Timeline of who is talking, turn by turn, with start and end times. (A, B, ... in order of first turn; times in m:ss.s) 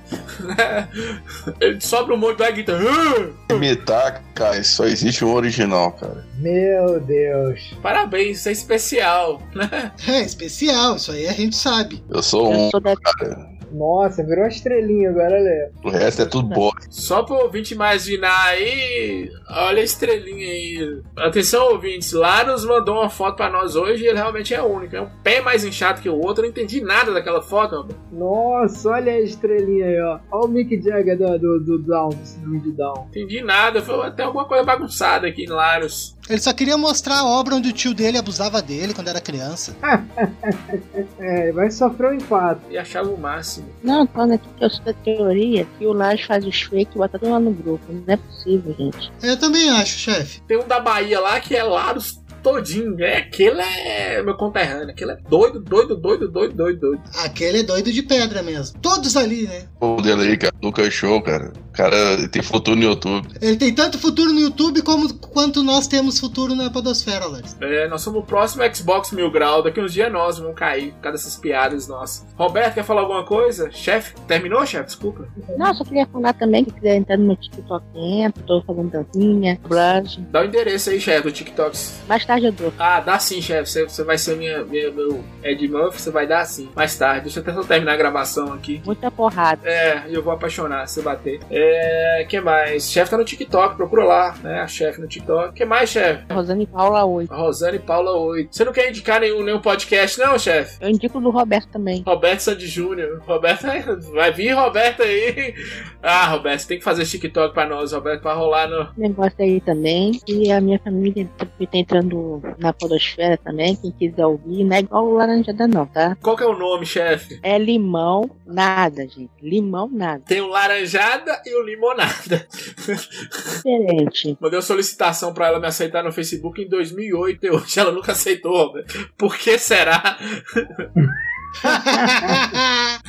0:00.3-0:03.6 A
0:03.5-0:06.2 B
0:06.3-0:07.7 C
0:07.8-0:09.9 A
0:10.0-0:12.0 D
0:12.1-0:13.4 B
0:12.5-0:13.0 E
0:13.7-0:15.7 C
0:15.8-0:16.8 B
0:16.2-0:16.6 E
0:16.9-0:28.0 A
0:28.1-0:33.1 C
0:33.1-0:36.1 A
0:36.3-0:39.8 D
0:39.8-0:42.6 C
0:42.7-0:43.8 A
0:43.8-0:49.1 E
0:49.2-0:50.4 D
0:50.5-0:57.0 A
0:57.1-0:59.7 D
0:59.8-1:03.3 B
1:03.4-1:07.5 D
1:07.6-1:15.4 A
1:15.5-1:20.3 E
1:20.3-1:22.0 A
1:22.1-1:22.7 E
1:22.8-1:28.9 A
1:28.8-1:29.6 E
1:29.6-1:36.3 A
1:36.3-1:37.3 E
1:37.3-1:40.7 A
1:40.8-1:42.0 E
1:42.0-1:48.9 A
1:49.0-1:56.2 E
1:56.2-1:57.4 A
1:57.4-2:00.2 E
2:00.3-2:03.6 A
2:03.6-2:04.4 E
2:04.4-2:10.8 A
2:11.6-2:12.5 C
2:11.6-2:13.0 D